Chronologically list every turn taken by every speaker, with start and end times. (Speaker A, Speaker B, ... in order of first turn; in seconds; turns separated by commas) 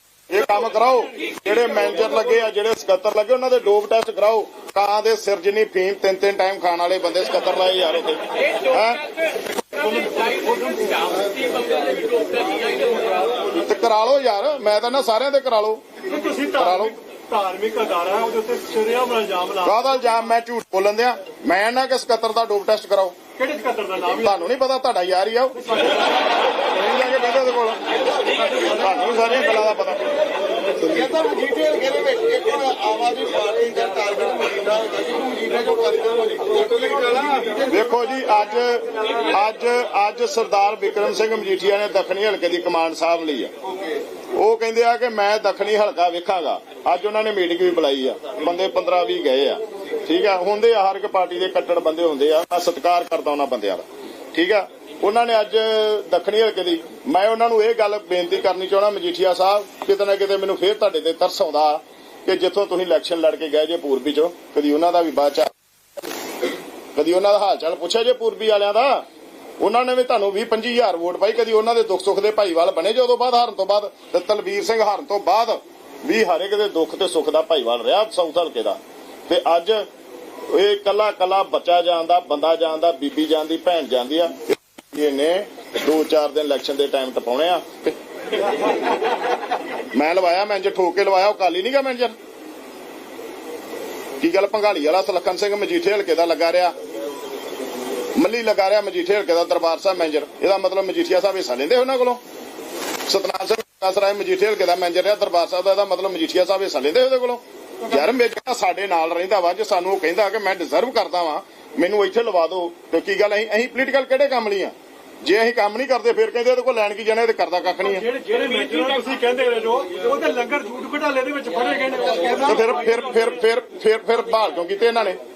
Speaker A: 0.3-9.1, Speaker B: 9.7-13.2, Speaker A: 13.6-15.8, Speaker B: 16.0-19.8, Speaker A: 16.5-17.0, Speaker A: 19.6-23.1, Speaker B: 23.4-24.3, Speaker A: 24.2-25.9, Speaker B: 25.6-26.1, Speaker A: 26.7-27.8, Speaker B: 28.5-28.8, Speaker A: 28.6-30.1, Speaker C: 30.8-37.6, Speaker A: 37.7-43.5, Speaker A: 44.3-65.5, Speaker A: 66.9-69.0, Speaker A: 69.6-79.9, Speaker A: 80.5-87.9, Speaker A: 89.9-92.2, Speaker A: 94.2-96.7, Speaker A: 98.2-102.2, Speaker A: 103.0-118.1, Speaker B: 117.8-122.9, Speaker A: 122.4-125.2